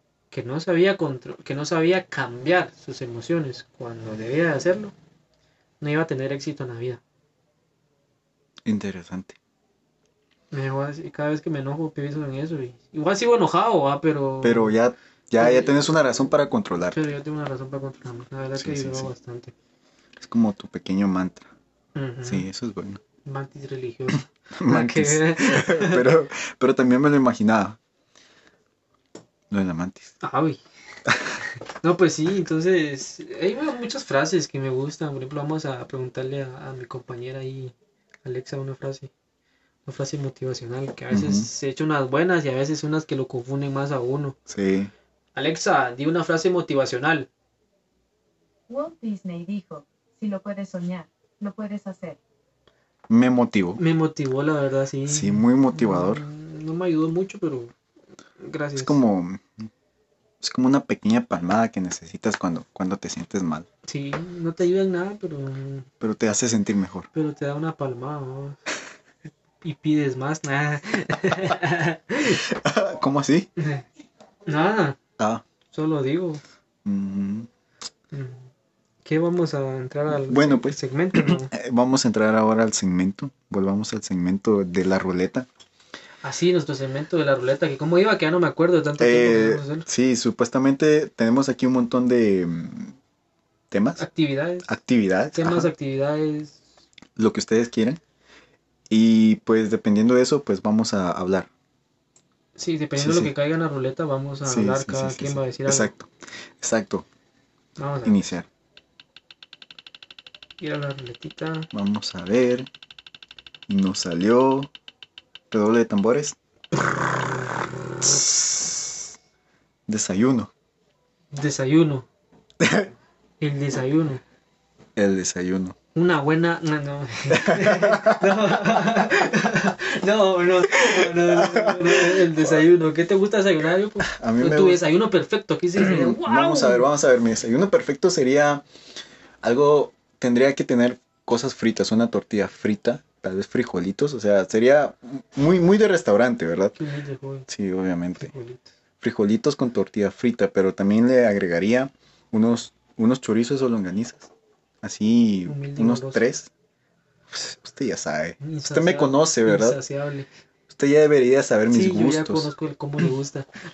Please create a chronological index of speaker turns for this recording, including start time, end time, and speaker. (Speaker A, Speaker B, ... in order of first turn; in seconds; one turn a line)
Speaker A: 0.3-4.9
Speaker A: 5.8-7.0
Speaker B: 8.6-9.4
Speaker A: 10.5-14.7
Speaker B: 14.4-17.0
Speaker A: 15.4-15.9
Speaker A: 16.8-19.5
Speaker B: 18.6-19.1
Speaker B: 20.2-21.5
Speaker A: 21.9-22.5
Speaker B: 22.2-23.0
Speaker A: 23.2-26.1
Speaker B: 24.6-27.8
Speaker B: 29.5-30.1
Speaker A: 30.2-30.6
Speaker A: 31.8-39.1
Speaker A: 39.9-44.4
Speaker B: 41.1-41.5
Speaker B: 44.5-44.9
Speaker A: 45.4-47.3
Speaker C: 48.7-52.2
Speaker B: 53.1-53.8
Speaker A: 53.8-57.7
Speaker B: 55.1-56.2
Speaker A: 58.4-59.0
Speaker B: 58.8-59.7
Speaker B: 60.4-63.7
Speaker A: 63.9-65.9
Speaker B: 66.0-67.1
Speaker A: 67.1-68.6
Speaker A: 69.6-72.4
Speaker B: 72.4-73.5
Speaker A: 73.6-73.8
Speaker A: 74.5-75.0
Speaker B: 75.2-75.4
Speaker A: 75.7-76.4
Speaker B: 76.8-77.5
Speaker A: 78.1-78.5
Speaker A: 79.0-81.5
Speaker B: 80.2-85.5
Speaker A: 86.2-89.9
Speaker B: 89.0-93.0
Speaker B: 93.7-94.0
Speaker A: 94.0-94.7
Speaker B: 94.7-95.7
Speaker A: 95.3-96.6
Speaker B: 97.2-98.0
Speaker B: 98.9-101.5
Speaker A: 102.6-105.9
Speaker B: 103.0-103.3
Speaker B: 104.5-107.1
Speaker A: 107.8-108.3
Speaker B: 108.0-108.5
Speaker A: 110.6-111.7
Speaker B: 111.7-112.7
Speaker B: 113.7-114.7
Speaker B: 115.5-116.4
Speaker B: 119.9-120.5
Speaker A: 121.3-122.1
Speaker B: 122.6-122.9
Speaker A: 123.4-124.2
Speaker B: 125.0-125.8
Speaker A: 125.9-136.9
Speaker B: 127.3-128.2
Speaker B: 130.7-132.5
Speaker B: 134.1-134.8
Speaker B: 135.8-138.6
Speaker B: 139.4-146.8
Speaker A: 146.8-147.5
Speaker B: 147.5-148.3
Speaker A: 148.2-148.7
Speaker B: 149.0-154.3
Speaker B: 154.8-156.5
Speaker A: 155.5-156.2
Speaker B: 157.3-159.8
Speaker A: 158.4-160.3
Speaker B: 160.7-162.5
Speaker A: 161.7-163.5